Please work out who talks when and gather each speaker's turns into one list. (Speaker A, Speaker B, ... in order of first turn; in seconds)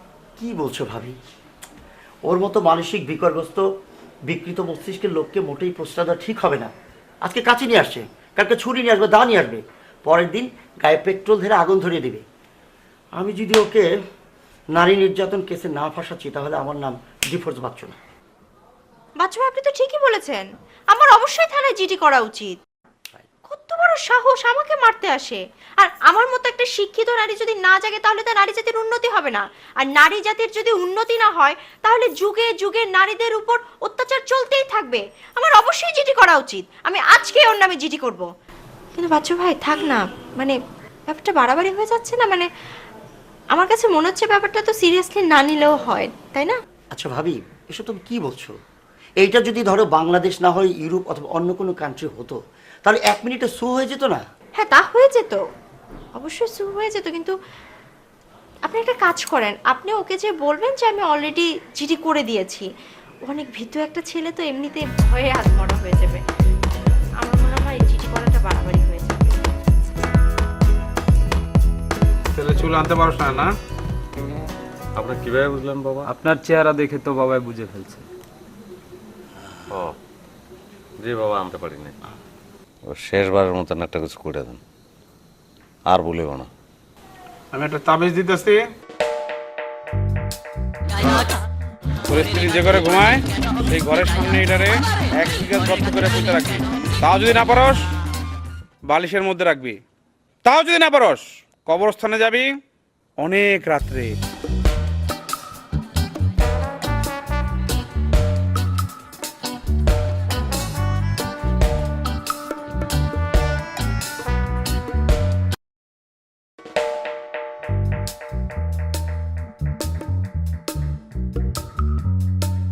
Speaker A: 0.4-1.2, 2.3-3.6, 4.3-6.7, 7.2-12.2, 13.2-13.8, 14.8-17.9, 46.9-48.5, 49.2-54.2
Speaker B: 19.2-22.6, 23.5-38.3, 39.0-40.6, 41.1-42.5, 43.5-46.6, 54.6-55.4, 56.2-57.4, 58.7-62.7, 63.3-66.2, 67.2-69.4
Speaker C: 72.3-73.5, 87.5-88.6, 92.1-97.9, 98.9-99.8, 100.5-102.6, 103.2-104.2
Speaker D: 75.0-76.1, 81.0-82.0, 82.9-84.6, 85.9-86.5
Speaker E: 76.0-78.1